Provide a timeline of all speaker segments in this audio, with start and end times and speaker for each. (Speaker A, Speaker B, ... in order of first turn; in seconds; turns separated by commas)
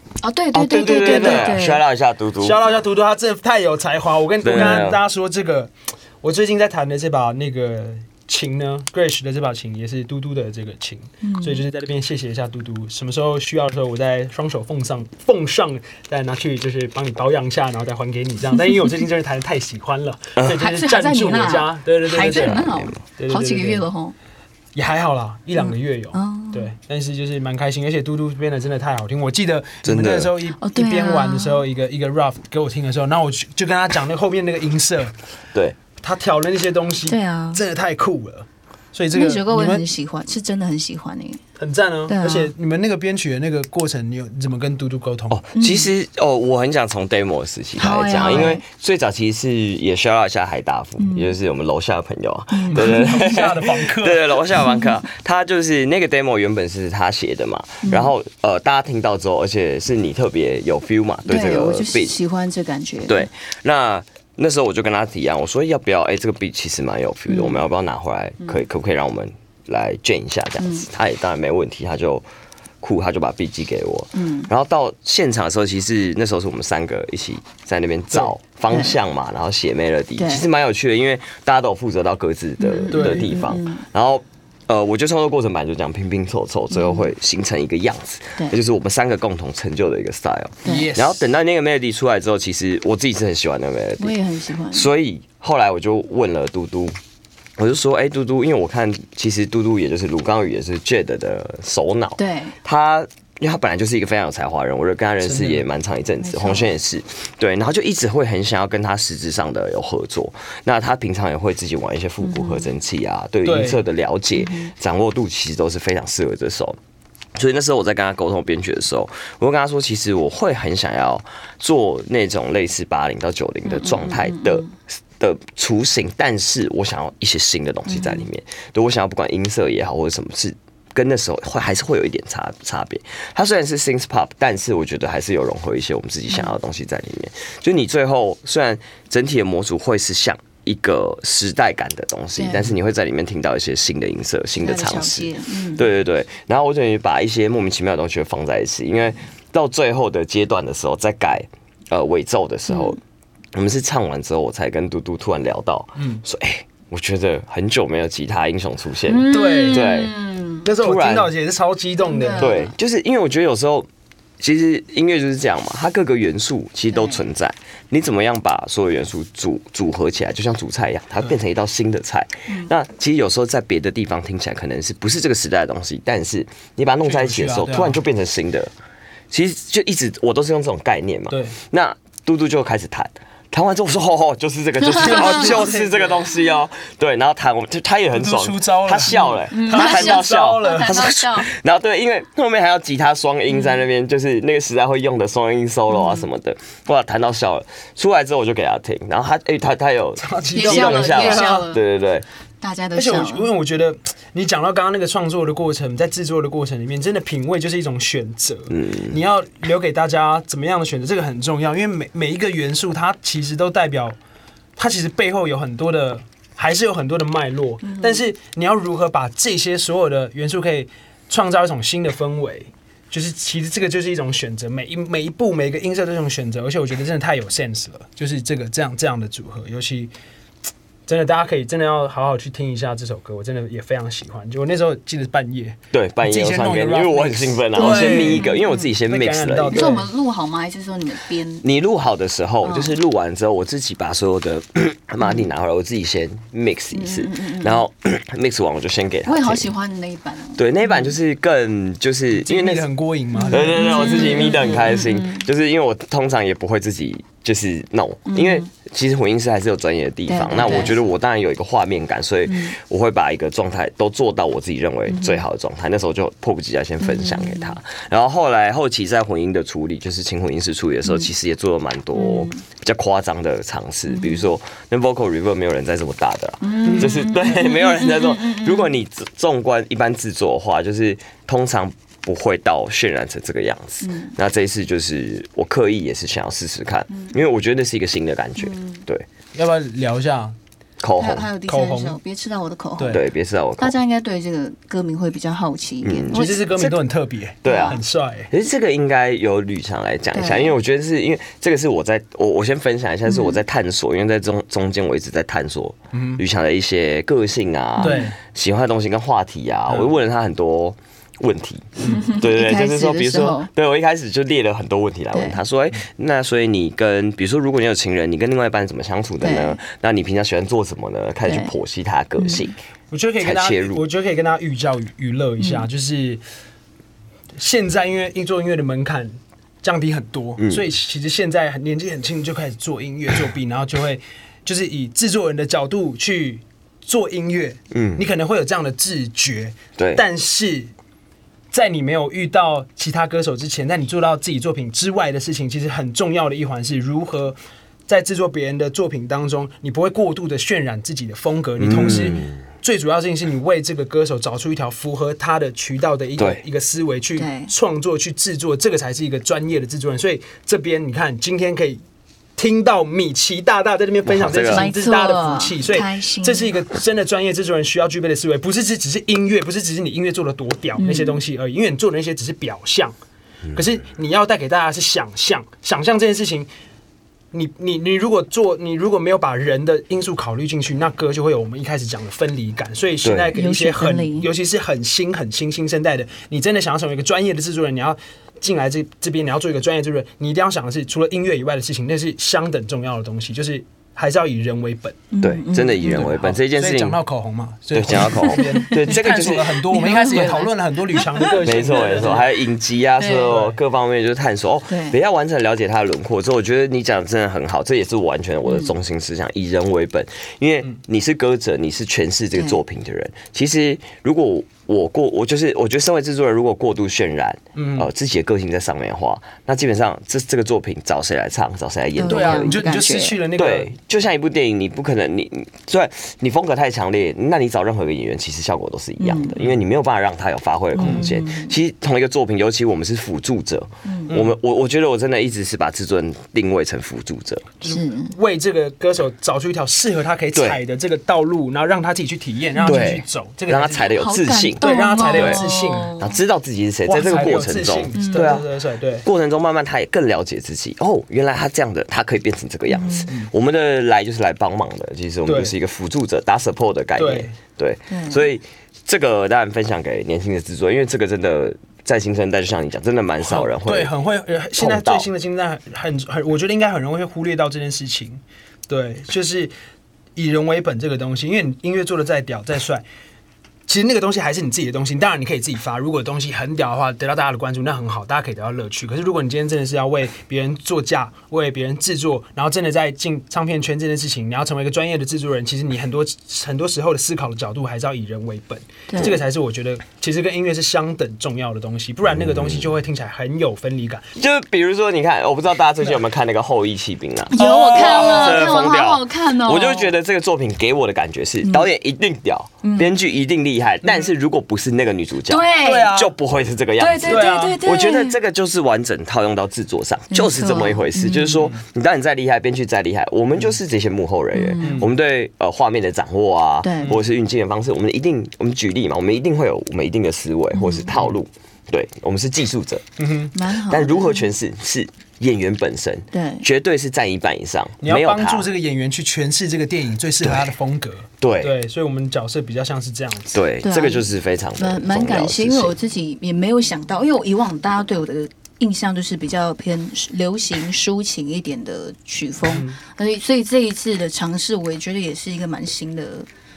Speaker A: 0.2-1.8, Speaker B: 0.5-2.6, Speaker C: 0.8-1.6, Speaker C: 2.4-23.9, Speaker B: 4.4-5.0, Speaker A: 4.5-4.8, Speaker A: 11.2-11.6, Speaker A: 20.5-24.1, Speaker B: 22.2-23.0, Speaker C: 24.7-35.1, Speaker A: 25.6-26.7, Speaker B: 29.8-30.3, Speaker A: 30.6-31.6, Speaker C: 36.0-39.8, Speaker A: 37.1-37.6, Speaker A: 39.1-41.4, Speaker C: 41.6-45.4, Speaker A: 42.1-42.5, Speaker B: 45.3-62.1, Speaker A: 45.5-45.9, Speaker A: 47.8-48.6, Speaker A: 51.0-51.3, Speaker A: 52.5-53.3, Speaker C: 52.7-54.5, Speaker A: 54.6-54.9, Speaker A: 57.8-58.1, Speaker A: 61.3-63.3, Speaker B: 63.0-72.2, Speaker A: 67.3-67.6, Speaker A: 70.6-70.9, Speaker B: 72.8-94.1, Speaker A: 74.1-74.5, Speaker A: 78.7-79.0, Speaker A: 80.2-80.5, Speaker A: 82.6-83.8, Speaker C: 82.9-83.4, Speaker A: 86.7-87.1, Speaker A: 90.6-90.9, Speaker C: 90.6-91.2, Speaker A: 94.0-94.9, Speaker B: 94.7-96.9, Speaker B: 97.6-116.8, Speaker A: 102.2-102.5, Speaker C: 105.2-105.6, Speaker A: 106.2-106.7, Speaker A: 112.2-112.7, Speaker C: 113.4-113.8, Speaker A: 114.3-114.7, Speaker B: 117.3-153.0, Speaker A: 123.6-124.7, Speaker A: 127.9-128.3, Speaker A: 142.3-142.7, Speaker A: 144.6-145.8, Speaker A: 152.7-153.0, Speaker B: 153.5-160.1, Speaker C: 156.0-156.2, Speaker A: 159.1-160.7, Speaker C: 159.3-160.1, Speaker C: 160.6-162.6, Speaker B: 160.8-161.3, Speaker A: 162.0-162.7, Speaker B: 162.4-163.9, Speaker B: 164.4-178.7, Speaker A: 166.9-167.2, Speaker C: 177.0-178.0, Speaker B: 179.3-202.2, Speaker C: 181.3-181.6, Speaker A: 184.9-185.4, Speaker C: 185.0-186.2, Speaker C: 188.1-191.0, Speaker A: 189.5-191.5, Speaker A: 193.5-193.8, Speaker A: 195.9-196.2, Speaker C: 200.2-201.7, Speaker A: 200.5-201.8, Speaker A: 202.6-203.5, Speaker C: 202.9-214.2, Speaker B: 208.7-209.2, Speaker C: 214.8-230.1, Speaker A: 217.8-218.2, Speaker C: 231.1-238.5, Speaker B: 235.9-239.9, Speaker A: 237.8-238.9, Speaker C: 239.1-240.1, Speaker A: 239.7-241.6, Speaker B: 241.6-249.7, Speaker A: 242.6-242.9, Speaker A: 245.2-245.5, Speaker A: 246.9-247.8, Speaker A: 249.2-251.1, Speaker B: 250.6-252.8, Speaker C: 252.4-254.8, Speaker A: 253.3-255.4, Speaker B: 253.5-289.3, Speaker A: 258.3-258.7, Speaker A: 260.3-261.0, Speaker A: 262.5-262.7, Speaker A: 265.1-265.4, Speaker A: 267.0-267.8, Speaker A: 272.1-272.6, Speaker A: 274.1-274.4, Speaker A: 276.6-278.9, Speaker C: 276.9-277.2, Speaker A: 284.0-284.4, Speaker A: 287.1-287.4, Speaker A: 288.6-289.0, Speaker C: 289.5-290.6, Speaker B: 291.0-291.5, Speaker A: 291.2-293.2, Speaker C: 291.6-292.2, Speaker C: 293.0-293.2, Speaker B: 293.1-293.9, Speaker A: 293.8-296.9, Speaker B: 296.0-296.4, Speaker C: 296.3-298.5, Speaker B: 297.6-298.0, Speaker A: 297.6-298.0, Speaker B: 298.5-322.8, Speaker A: 300.3-300.7, Speaker A: 303.3-303.6, Speaker C: 306.1-306.4, Speaker A: 308.0-308.3, Speaker C: 308.0-308.4, Speaker C: 309.9-310.1, Speaker A: 312.0-313.7, Speaker A: 315.3-315.6, Speaker A: 319.4-319.8, Speaker A: 321.4-321.7, Speaker A: 322.4-322.6, Speaker C: 323.1-326.4, Speaker B: 323.4-324.0, Speaker A: 325.6-325.9, Speaker C: 327.6-340.9, Speaker B: 330.6-330.8, Speaker B: 337.9-338.2, Speaker B: 340.0-340.2, Speaker C: 341.7-347.6, Speaker C: 348.1-362.0, Speaker B: 351.8-352.6, Speaker A: 357.4-357.7, Speaker C: 362.6-373.1, Speaker B: 364.2-364.9, Speaker A: 364.6-366.7, Speaker A: 371.0-371.4, Speaker C: 373.7-376.7, Speaker C: 377.5-395.3, Speaker B: 383.2-383.5, Speaker A: 383.5-384.5, Speaker A: 395.3-396.3, Speaker B: 395.4-397.2, Speaker C: 396.0-402.5, Speaker B: 397.9-399.8, Speaker A: 398.4-399.2, Speaker A: 399.9-401.6, Speaker B: 401.6-422.8, Speaker A: 403.2-403.6, Speaker C: 403.4-403.8, Speaker A: 404.9-405.2, Speaker A: 408.6-408.9, Speaker A: 412.5-412.8, Speaker C: 417.7-418.1, Speaker A: 422.2-423.4, Speaker C: 422.3-423.9, Speaker B: 423.6-437.7, Speaker A: 429.2-429.6, Speaker A: 430.9-431.8, Speaker C: 431.0-431.3, Speaker A: 434.0-434.3, Speaker C: 434.3-434.6, Speaker C: 437.8-444.1, Speaker A: 437.8-438.3, Speaker B: 440.5-440.8, Speaker A: 442.8-443.2, Speaker B: 442.8-448.7, Speaker A: 444.1-446.4, Speaker C: 444.8-446.2, Speaker C: 447.1-449.2, Speaker A: 448.1-448.6, Speaker B: 449.2-464.1, Speaker A: 452.9-453.3, Speaker C: 455.4-455.7, Speaker C: 457.2-457.5, Speaker A: 458.1-458.5, Speaker C: 463.4-469.7, Speaker B: 464.8-465.3, Speaker C: 470.4-473.0, Speaker C: 473.9-494.3, Speaker A: 489.1-489.4, Speaker B: 494.4-523.0, Speaker A: 497.5-500.1, Speaker C: 497.6-498.8, Speaker A: 501.6-501.9, Speaker A: 502.8-503.1, Speaker C: 504.0-504.3, Speaker A: 505.5-506.1, Speaker C: 505.8-506.3, Speaker A: 507.0-508.4, Speaker C: 507.2-507.8, Speaker A: 510.3-511.7, Speaker A: 514.5-515.0, Speaker C: 514.8-515.1, Speaker A: 516.8-517.1, Speaker A: 520.7-521.1, Speaker C: 523.2-523.5, Speaker A: 523.5-524.5, Speaker B: 523.9-528.7, Speaker A: 526.3-526.6, Speaker C: 528.0-533.6, Speaker B: 530.4-530.7, Speaker B: 531.4-531.7, Speaker B: 533.5-535.9, Speaker A: 533.8-546.5, Speaker C: 542.7-543.0